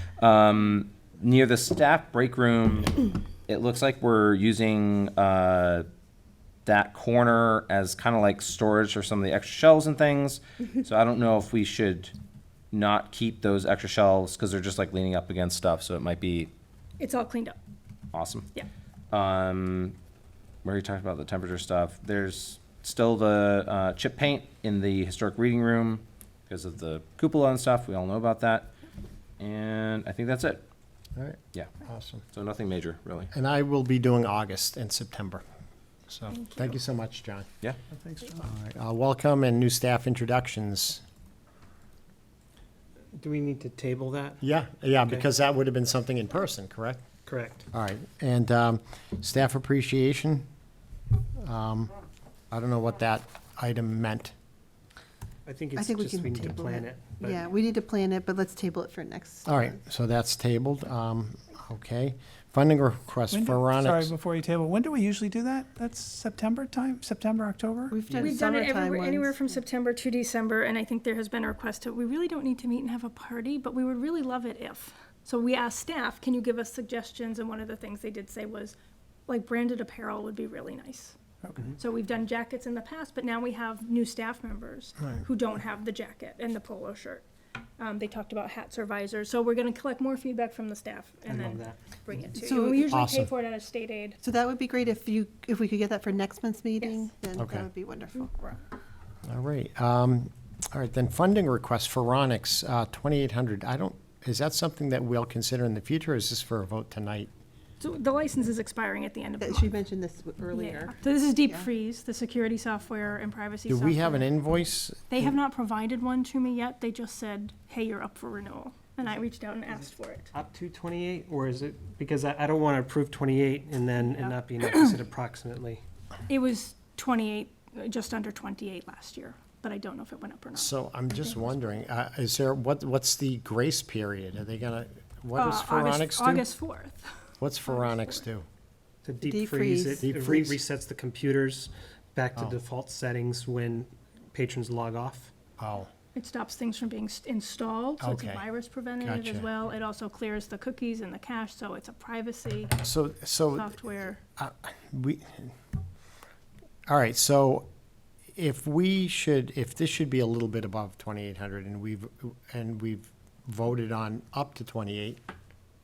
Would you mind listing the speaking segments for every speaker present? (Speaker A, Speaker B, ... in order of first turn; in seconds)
Speaker A: 0.2-5.9, 6.7-12.1, 12.7-16.5, 18.1-18.5, 19.1-19.9, 20.6-28.7, 29.4-30.6, 32.3-33.3
Speaker B: 17.0-17.6, 36.3-36.8, 68.2-81.2, 81.8-87.2, 87.8-94.2, 96.8-97.1, 98.2-98.6, 107.8-109.7, 110.5-114.3, 115.1-120.3, 124.0-124.9, 126.3-130.7, 135.3-138.2, 146.1-152.8, 153.5-154.2
Speaker C: 31.1-32.2, 33.3-35.4, 36.1-37.5, 38.3-41.0, 44.4-47.1, 47.7-50.5, 51.4-51.9, 52.5-54.3, 59.5-64.1, 92.9-93.3, 97.4-97.7, 99.2-107.3, 113.7-115.4, 130.5-136.5, 137.4-138.4, 140.0-140.3, 145.6-145.9, 148.0-148.4, 149.0-149.5, 152.8-153.8, 154.3-155.5, 156.9-157.7, 158.3-165.2
Speaker D: 43.1-44.4, 47.2-47.7, 55.5-57.5, 91.3-91.8, 120.3-125.8, 139.0-145.3
Speaker E: 55.8-59.8, 67.9-69.4, 92.4-92.8, 94.2-98.3, 109.4-111.7, 139.2-140.5
Speaker F: 63.3-68.2